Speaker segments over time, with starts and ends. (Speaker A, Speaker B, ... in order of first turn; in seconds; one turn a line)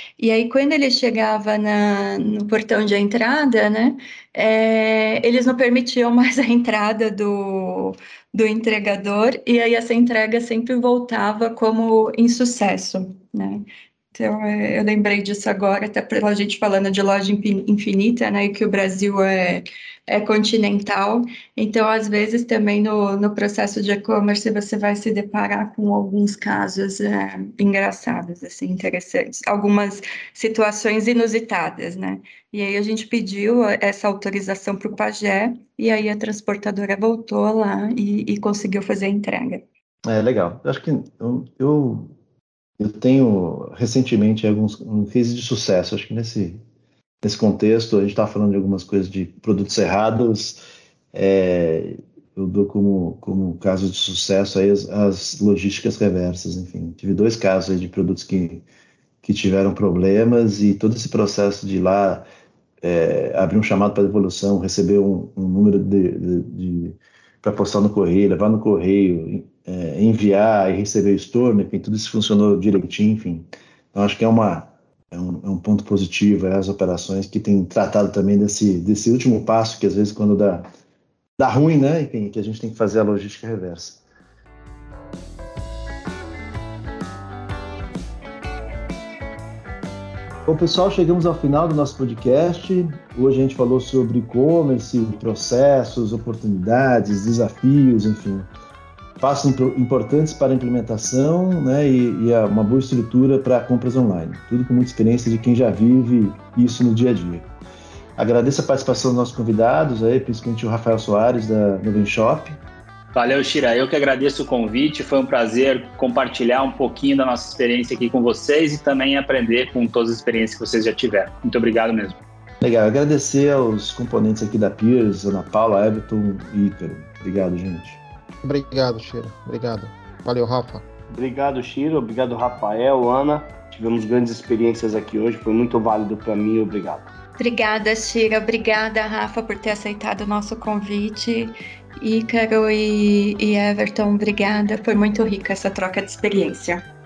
Speaker A: 0.2-39.6
Speaker B: 40.0-42.1
Speaker B: 42.8-46.6
Speaker B: 47.2-50.6
Speaker B: 51.1-58.6
Speaker B: 59.2-62.3
Speaker B: 62.8-80.7
Speaker B: 81.4-84.0
Speaker B: 90.5-98.5
Speaker B: 99.2-107.5
Speaker B: 108.2-112.6
Speaker C: 113.2-122.2
Speaker B: 122.6-128.0
Speaker D: 128.4-130.8
Speaker E: 131.1-137.1
Speaker A: 137.4-146.8